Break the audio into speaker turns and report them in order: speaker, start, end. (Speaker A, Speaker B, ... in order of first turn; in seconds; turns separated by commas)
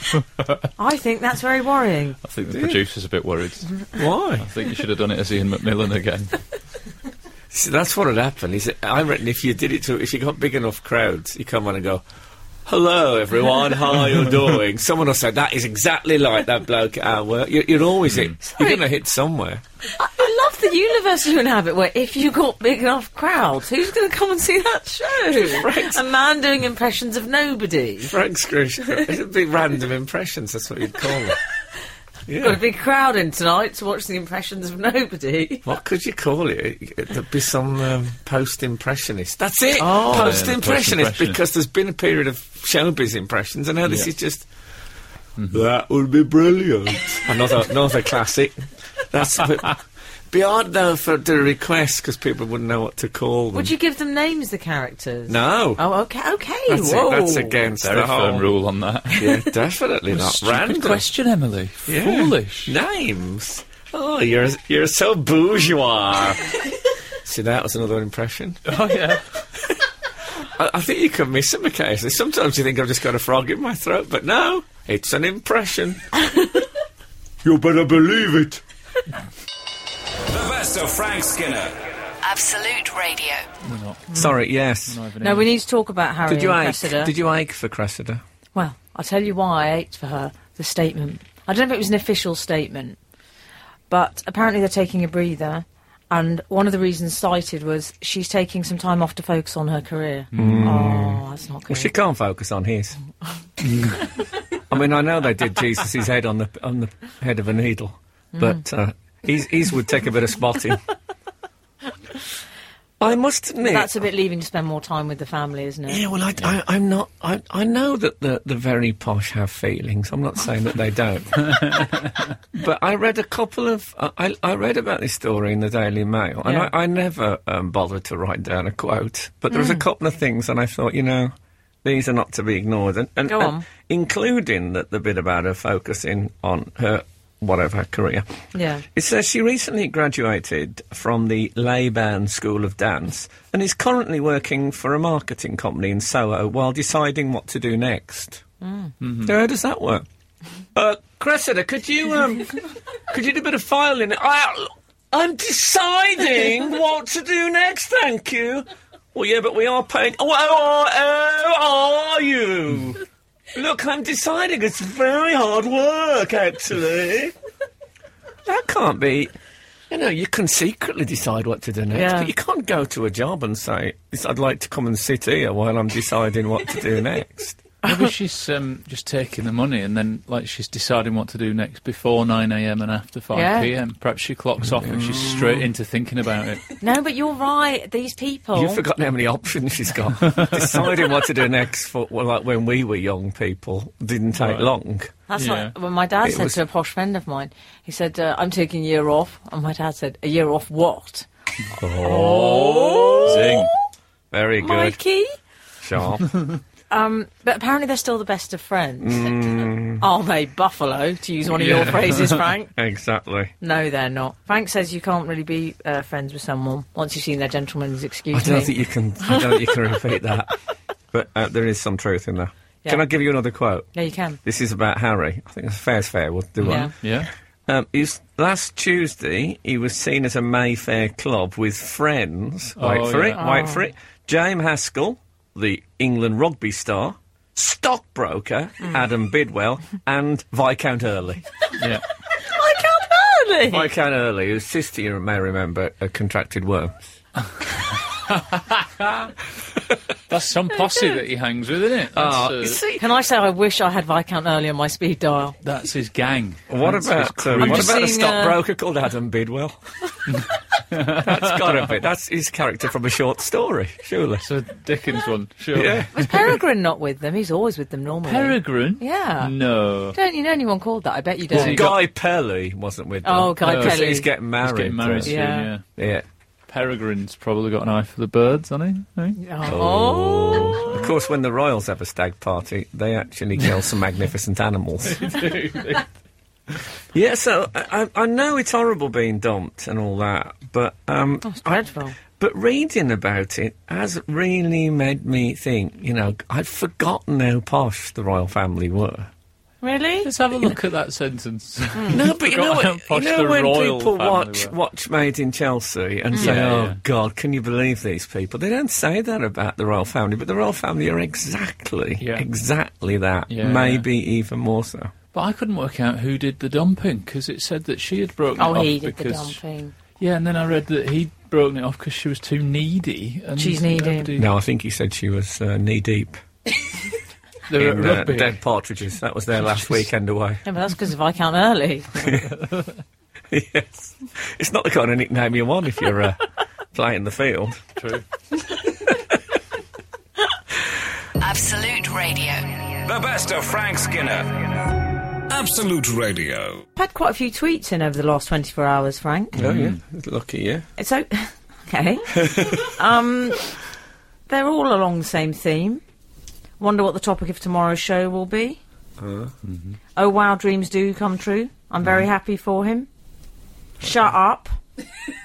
Speaker A: 0.8-2.2, Speaker B: 2.2-6.4, Speaker C: 2.5-2.8, Speaker C: 3.9-4.5, Speaker C: 7.5-12.0, Speaker C: 12.7-19.6, Speaker A: 18.4-18.8, Speaker A: 20.0-28.1, Speaker C: 25.3-26.0, Speaker C: 28.1-31.4, Speaker C: 32.3-32.6, Speaker A: 32.4-35.6, Speaker C: 35.6-44.5, Speaker A: 39.8-40.4, Speaker B: 40.1-41.4, Speaker C: 45.5-49.8, Speaker C: 50.3-53.7, Speaker A: 53.5-57.6, Speaker C: 55.3-55.8, Speaker C: 56.7-58.5, Speaker B: 57.8-59.4, Speaker C: 59.1-61.0, Speaker B: 60.1-62.7, Speaker C: 61.9-66.6, Speaker C: 67.2-68.6, Speaker B: 68.7-69.2, Speaker C: 70.4-76.1, Speaker C: 77.4-78.6, Speaker D: 80.2-82.2, Speaker E: 82.2-83.5, Speaker B: 83.6-84.3, Speaker C: 84.1-85.0, Speaker B: 84.9-85.5, Speaker A: 85.2-87.1, Speaker C: 86.2-88.2, Speaker A: 88.5-93.0, Speaker A: 93.9-101.9, Speaker B: 100.3-100.8, Speaker C: 100.3-103.0, Speaker C: 104.7-110.8, Speaker A: 108.3-108.6, Speaker C: 113.0-113.9, Speaker A: 113.6-116.0, Speaker C: 115.9-121.9, Speaker C: 122.5-138.2, Speaker A: 126.4-126.7, Speaker A: 129.5-129.8, Speaker A: 133.3-133.6, Speaker A: 138.5-138.8, Speaker C: 138.9-148.4, Speaker A: 148.6-148.9, Speaker B: 149.0-149.3, Speaker C: 149.2-150.1, Speaker C: 150.7-163.0, Speaker C: 163.5-167.3, Speaker C: 168.4-169.3, Speaker C: 169.9-177.6, Speaker A: 171.9-172.3, Speaker B: 177.8-186.7, Speaker A: 183.3-183.7, Speaker C: 184.8-185.7, Speaker A: 186.8-188.8, Speaker C: 188.5-195.1, Speaker B: 190.3-190.6, Speaker B: 194.4-194.7, Speaker A: 195.3-201.3, Speaker B: 195.4-195.7, Speaker C: 196.2-196.6, Speaker C: 201.8-203.6, Speaker A: 202.0-203.7, Speaker B: 202.3-203.7, Speaker C: 204.3-205.0, Speaker A: 204.6-205.3, Speaker C: 205.8-206.3, Speaker A: 206.9-209.3, Speaker C: 209.0-210.0, Speaker A: 210.0-212.7, Speaker B: 211.6-211.9, Speaker C: 211.7-212.1, Speaker C: 212.7-213.5, Speaker A: 213.6-218.7, Speaker C: 218.3-220.5, Speaker C: 221.1-223.9, Speaker A: 223.9-224.4, Speaker C: 224.4-227.0, Speaker B: 226.6-227.3, Speaker A: 226.6-226.9, Speaker C: 227.7-241.4, Speaker B: 232.8-233.4, Speaker A: 233.4-233.8, Speaker A: 242.3-243.9, Speaker C: 243.7-247.0, Speaker B: 248.1-249.3, Speaker B: 250.3-252.8, Speaker C: 252.1-253.0, Speaker A: 253.0-255.6, Speaker B: 255.6-258.0, Speaker C: 256.7-259.8, Speaker A: 257.6-258.6, Speaker B: 260.4-261.9, Speaker C: 261.1-264.4, Speaker B: 264.4-266.4, Speaker C: 265.7-266.1, Speaker A: 266.1-269.6, Speaker B: 268.2-270.2, Speaker A: 270.1-271.9, Speaker B: 271.5-272.0, Speaker C: 271.5-275.4, Speaker A: 273.2-274.3, Speaker B: 273.6-275.9, Speaker A: 275.2-275.7, Speaker C: 275.9-276.2, Speaker B: 276.7-279.4, Speaker A: 279.4-281.0, Speaker C: 279.6-285.4, Speaker B: 280.5-281.1, Speaker B: 285.1-286.1, Speaker C: 287.1-291.8, Speaker A: 291.4-292.2, Speaker C: 292.3-299.3, Speaker A: 299.8-300.3, Speaker B: 300.2-304.7, Speaker A: 301.9-302.2, Speaker C: 302.1-315.1, Speaker B: 306.4-307.0, Speaker B: 312.2-312.4, Speaker B: 313.5-314.1, Speaker B: 315.3-319.6, Speaker A: 318.6-319.9, Speaker B: 320.2-324.5, Speaker A: 323.6-324.3, Speaker C: 324.4-326.4, Speaker B: 327.7-328.6, Speaker C: 327.7-330.6, Speaker A: 330.6-332.4, Speaker C: 332.2-332.5, Speaker C: 333.5-336.4, Speaker C: 336.9-337.8, Speaker B: 337.9-338.2, Speaker C: 338.9-339.4, Speaker E: 341.4-343.0, Speaker D: 343.0-346.8, Speaker A: 346.9-349.6, Speaker B: 349.6-350.0, Speaker C: 349.6-350.9, Speaker A: 351.0-353.7, Speaker C: 352.3-352.9, Speaker A: 354.5-356.0, Speaker A: 356.8-358.8, Speaker C: 359.2-359.5, Speaker B: 359.6-360.0, Speaker A: 360.1-363.1, Speaker A: 364.0-364.7